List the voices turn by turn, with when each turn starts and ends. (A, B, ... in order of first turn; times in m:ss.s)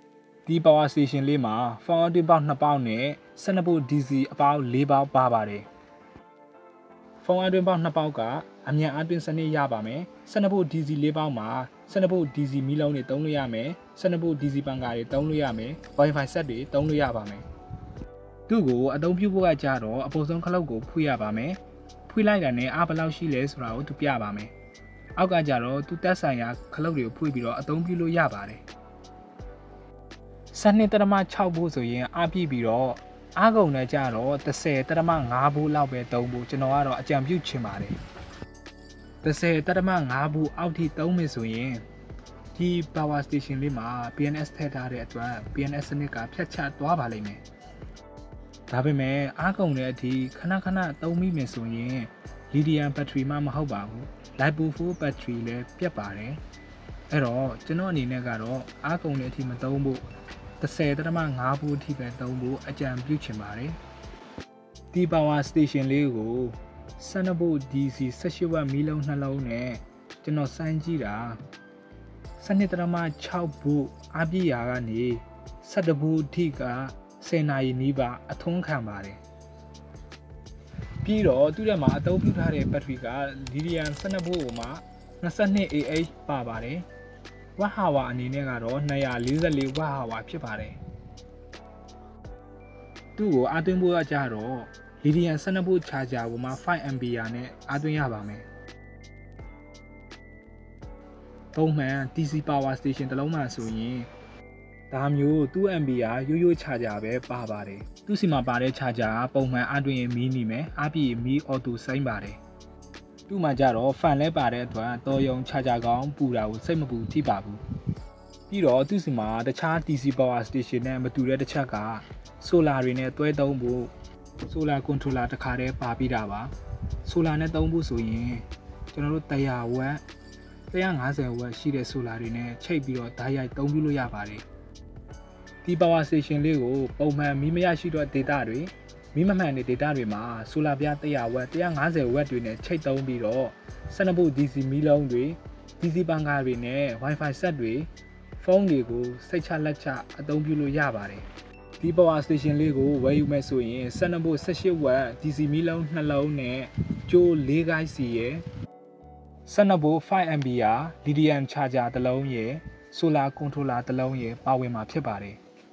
0:00.5-0:05.7 A
0:07.2-0:17.4 A
0:18.5-0:24.5 A
0:25.2-0:28.6 A
0:30.5-0:38.0 A
0:39.2-0:41.8 A
0:42.5-0:47.4 A
0:48.7-0:56.4 A
0:57.1-1:00.0 A
1:00.6-1:03.8 A
1:04.9-1:11.4 A
1:12.4-1:19.2 A
1:21.0-1:26.8 A
1:27.6-1:30.8 A
1:33.2-1:38.4 A
1:41.5-1:44.1 A
1:44.9-1:52.4 A
1:53.3-1:57.6 A
1:58.5-2:03.9 A
2:04.5-2:06.5 A
2:07.0-2:10.0 A
2:10.7-2:14.4 A
2:15.6-2:31.2 A
2:31.8-2:38.4 A
2:39.4-2:45.4 A